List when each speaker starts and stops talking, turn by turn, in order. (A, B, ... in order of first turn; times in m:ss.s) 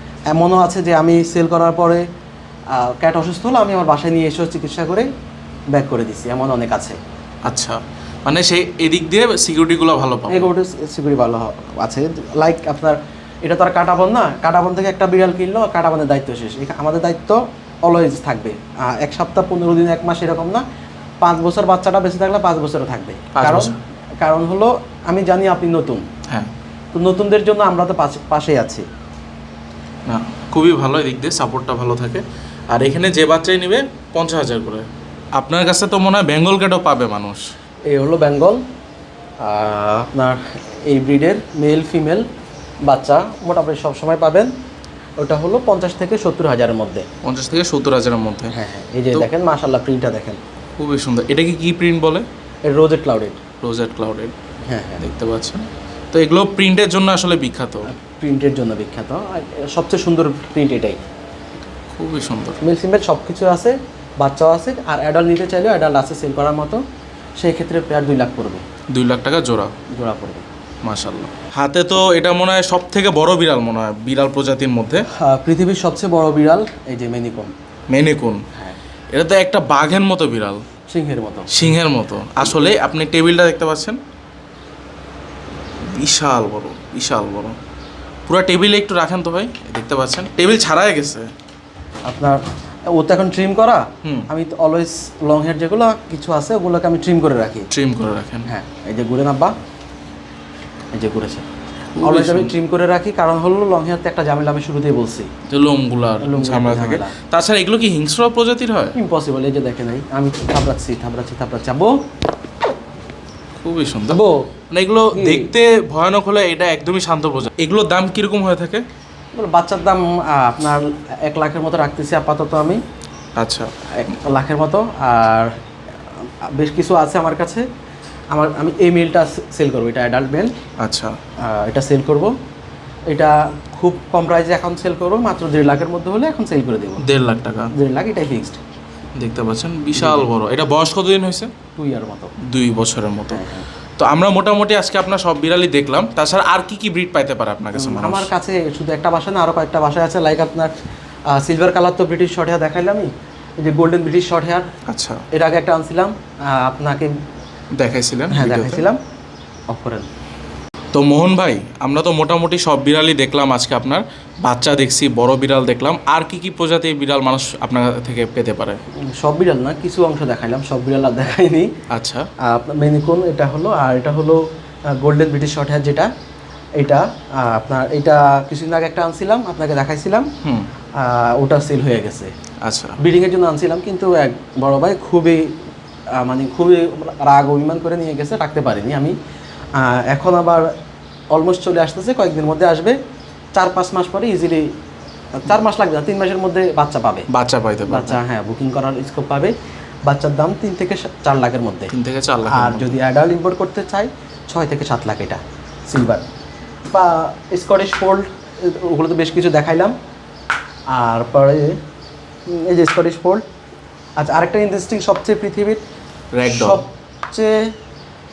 0:00.3-0:02.0 A
0:02.7-0:05.1 A
0:05.7-0:07.0 A
0:07.5-0:10.5 B
0:10.3-0:20.6 A
0:21.2-0:26.0 A
0:23.4-0:23.8 B
0:26.9-0:28.8 A
0:30.1-0:37.5 B
0:37.9-0:38.6 A
0:39.4-0:42.3 A
0:42.9-0:44.5 A
0:45.2-0:47.1 A
0:47.2-0:48.5 B
0:48.5-0:50.4 A
0:50.8-0:52.3 B
0:52.7-0:53.4 A
0:53.6-0:54.3 B
0:54.6-0:55.0 A
0:55.0-0:57.9 B
0:57.9-1:01.0 A
1:01.9-1:02.6 B
1:02.6-1:06.8 A
1:07.4-1:08.6 A
1:08.9-1:09.7 B
1:09.9-1:10.5 A
1:10.8-1:15.0 B
1:15.2-1:17.5 A
1:17.9-1:18.4 B
1:19.1-1:20.6 B
1:20.9-1:21.5 A
1:21.5-1:24.0 B
1:25.8-1:27.6 B
1:28.3-1:31.3 B
1:32.1-1:37.7 A
1:34.0-1:34.3 B
1:37.7-1:38.5 B
1:38.5-1:39.5 A
1:41.0-1:41.5 A
1:42.0-1:42.5 B
1:42.0-1:45.3 A
1:45.5-1:49.0 B
1:46.2-1:47.1 A
1:49.0-1:52.0 A
1:53.6-1:58.8 B
1:54.1-1:54.5 A
1:55.1-1:55.5 A
1:59.3-2:02.8 A
2:03.4-2:03.7 B
2:03.9-2:05.5 A
2:06.5-2:07.6 A
2:08.3-2:10.5 A
2:10.8-2:11.2 B
2:11.4-2:12.3 A
2:13.1-2:17.0 A
2:17.0-2:17.7 B
2:17.7-2:18.6 A
2:19.2-2:21.5 B
2:20.0-2:20.3 A
2:21.8-2:22.3 A
2:22.5-2:23.4 B
2:23.3-2:23.6 A
2:24.0-2:28.3 B
2:27.8-2:30.7 A
2:31.3-2:33.1 A
2:33.6-2:34.7 A
2:34.9-2:35.2 B
2:35.3-2:37.1 A
2:37.8-2:38.8 B
2:38.3-2:39.0 A
2:39.7-2:40.1 A
2:40.9-2:48.8 B
2:49.0-2:51.7 A
2:51.9-2:52.3 B
2:52.4-2:54.4 A
2:54.9-2:56.1 A
2:56.8-3:00.3 A
3:00.4-3:00.7 B
3:01.0-3:02.3 A
3:02.6-3:03.0 B
3:03.0-3:05.5 A
3:06.2-3:09.2 A
3:09.8-3:10.7 A
3:11.3-3:13.0 A
3:13.6-3:14.7 A
3:15.4-3:17.3 A
3:17.3-3:18.2 B
3:17.9-3:19.5 A
3:20.1-3:21.9 A
3:21.9-3:23.0 B
3:22.5-3:26.2 A
3:26.9-3:30.0 A
3:30.9-3:31.8 A
3:32.5-3:33.4 A
3:34.2-3:35.8 A
3:36.3-3:36.8 B
3:36.5-3:37.7 A